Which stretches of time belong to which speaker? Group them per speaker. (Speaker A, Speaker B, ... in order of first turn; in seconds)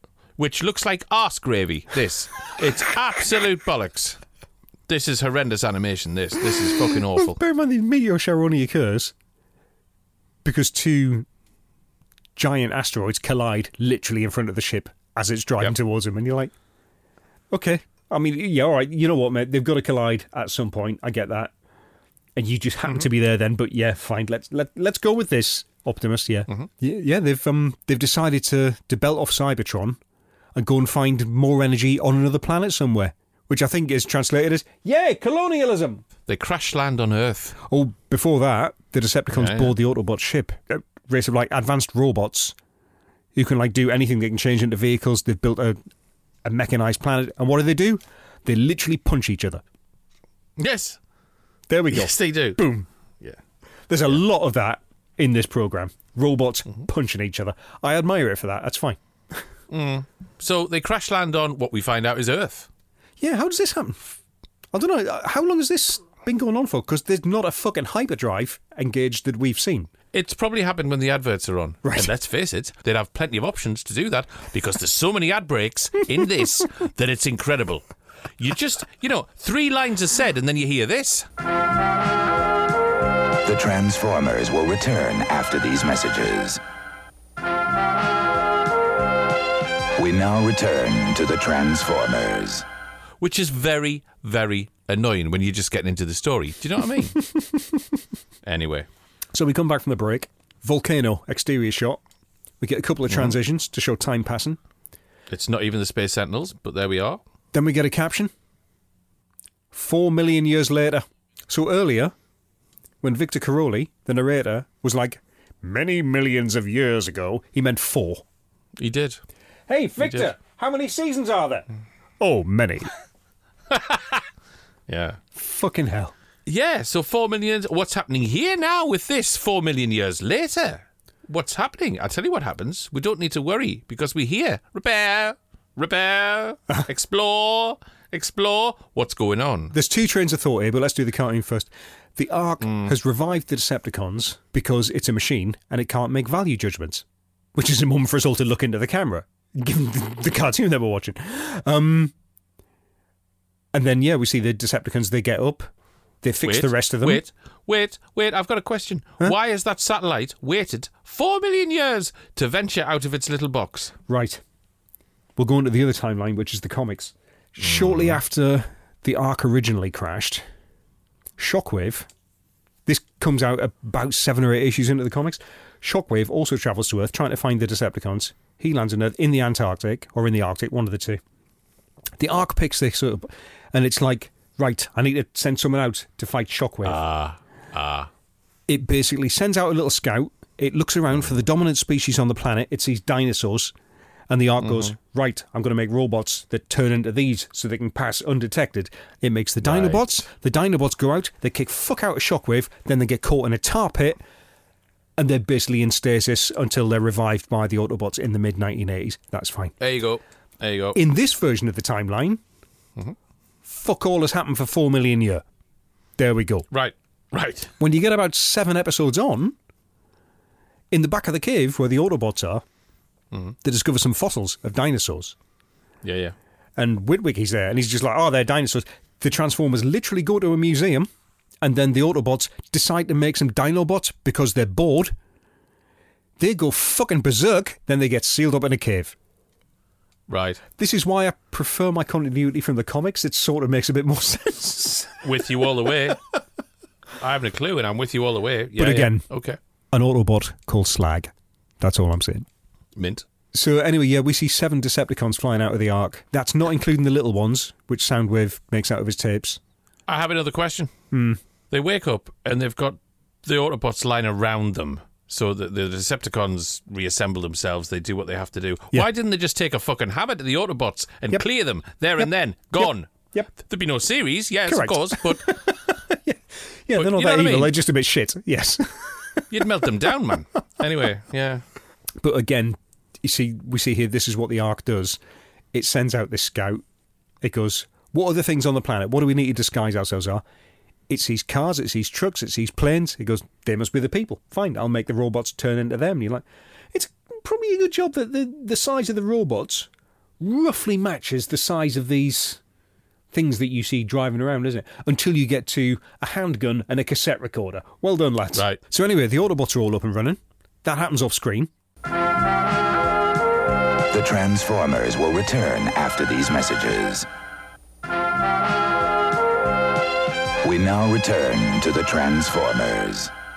Speaker A: 0.4-4.2, 4.9-7.4, 36.3-37.6, 39.3-39.7, 50.6-51.0, 51.9-52.6, 59.7-62.7, 70.1-77.8, 78.4-81.3, 93.2-97.2, 98.4-98.9, 103.1-103.3, 105.3-107.2, 118.8-119.2, 120.0-120.3, 123.7-124.2, 124.9-125.2, 126.5-139.7, 142.6-142.9, 156.4-163.9, 167.6-168.2, 186.8-188.1, 194.6-194.9, 199.6-200.0, 209.8-211.0, 216.7-217.7, 226.0-226.3, 240.3-240.6, 245.2-246.3, 247.2-249.6, 252.9-253.2, 260.1-260.9, 261.7-275.6, 276.9-277.7, 279.5-281.6
Speaker B: 6.8-9.1, 10.4-11.3, 12.3-16.5, 17.5-21.5, 22.4-30.0, 30.6-36.0, 37.6-42.5, 43.3-45.8, 46.4-49.6, 51.7-52.9, 53.9-59.5, 63.2-64.2, 64.7-69.9, 71.8-72.1, 99.3-102.0, 102.6-104.6, 107.5-108.3, 109.7-112.1, 113.0-118.2, 119.7-121.7, 122.2-122.9, 125.3-126.1, 139.7-152.1, 153.7-155.7, 156.2-157.2, 164.1-164.4, 165.3-170.4, 171.4-172.1, 172.8-181.2, 182.2-187.0, 188.7-193.7, 194.3-204.2, 205.2-209.7, 210.9-212.4, 213.7-215.4, 216.2-216.7, 217.8-219.6, 220.9-222.6, 223.6-225.3, 226.8-231.1, 231.6-235.2, 236.4-239.1, 240.8-245.3, 248.8-249.2, 249.9-252.5, 253.5-259.6, 261.1-261.4, 272.2-273.5, 274.6-279.6, 282.2-285.2, 285.7-286.8, 287.4-290.4, 291.1-299.9, 300.4-302.6, 303.3-311.7
Speaker C: 83.4-86.6, 90.0-92.6, 314.1-317.3, 320.6-323.3